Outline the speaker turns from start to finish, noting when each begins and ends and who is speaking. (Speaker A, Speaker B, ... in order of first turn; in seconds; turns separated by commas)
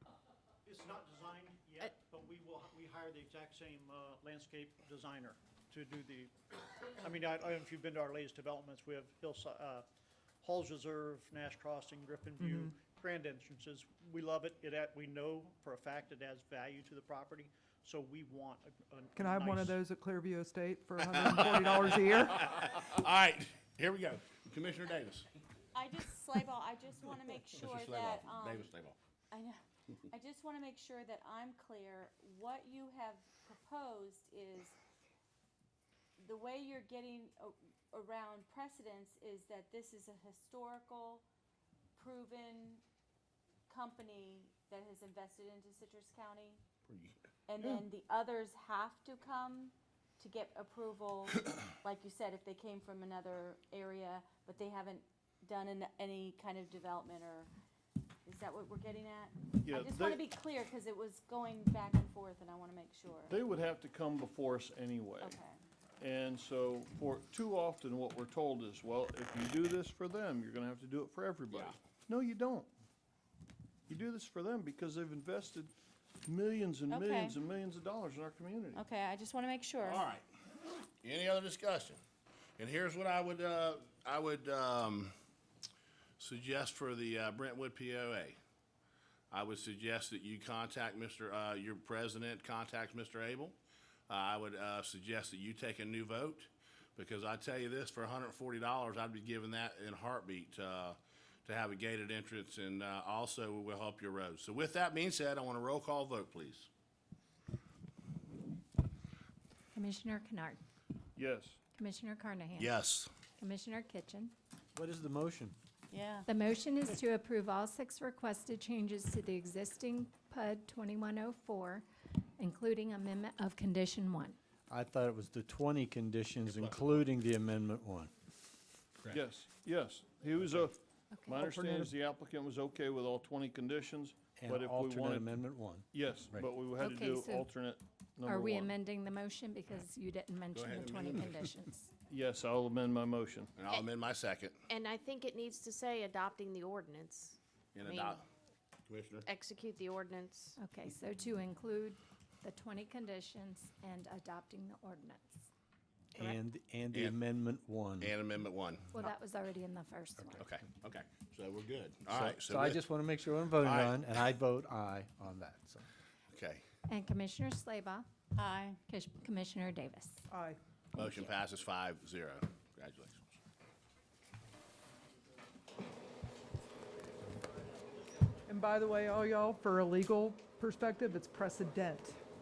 Speaker A: 0.7-9.9, Speaker A: 10.4-19.8, Speaker B: 12.4-12.7, Speaker B: 19.1-22.3, Speaker C: 21.1-25.3, Speaker D: 25.8-28.7, Speaker C: 27.6-29.0, Speaker D: 29.3-29.6, Speaker D: 30.1-34.8, Speaker D: 36.2-41.2, Speaker D: 42.0-42.8, Speaker D: 43.7-46.6, Speaker C: 46.9-47.8, Speaker D: 47.5-57.5, Speaker D: 58.3-63.3, Speaker E: 59.6-60.2, Speaker E: 63.3-65.4, Speaker D: 65.2-65.6, Speaker E: 66.0-72.7, Speaker C: 71.5-71.8, Speaker E: 73.9-75.8, Speaker E: 76.3-78.8, Speaker D: 76.9-77.3, Speaker D: 78.8-80.0, Speaker C: 79.8-80.2, Speaker C: 81.0-82.0, Speaker C: 82.6-85.2, Speaker C: 86.2-88.4, Speaker C: 89.3-93.6, Speaker C: 94.1-106.7, Speaker F: 109.7-110.6, Speaker E: 111.2-111.6, Speaker F: 111.8-112.7, Speaker C: 112.6-113.1, Speaker F: 113.4-114.3, Speaker G: 114.8-115.5, Speaker D: 115.9-116.3, Speaker F: 116.3-121.9, Speaker F: 122.4-124.4, Speaker G: 124.7-128.1, Speaker C: 126.5-127.0, Speaker E: 129.1-135.3, Speaker F: 131.1-131.5, Speaker G: 134.4-136.5, Speaker E: 135.9-138.7, Speaker F: 136.8-137.5, Speaker F: 138.2-141.9, Speaker C: 140.5-141.4, Speaker E: 142.1-143.5, Speaker C: 143.6-144.6, Speaker H: 144.7-148.2, Speaker C: 147.8-148.2, Speaker C: 148.9-149.3, Speaker H: 149.3-150.6, Speaker F: 150.6-155.4, Speaker G: 156.2-158.1, Speaker C: 156.9-157.2, Speaker C: 158.0-159.0, Speaker F: 158.9-160.4, Speaker C: 160.4-162.8, Speaker G: 162.1-165.8, Speaker C: 163.6-164.0, Speaker C: 166.3-166.6, Speaker F: 166.9-168.1, Speaker D: 168.3-168.8, Speaker F: 168.9-170.2, Speaker B: 170.3-170.6, Speaker C: 170.9-173.2, Speaker A: 177.2-178.3, Speaker B: 178.5-182.2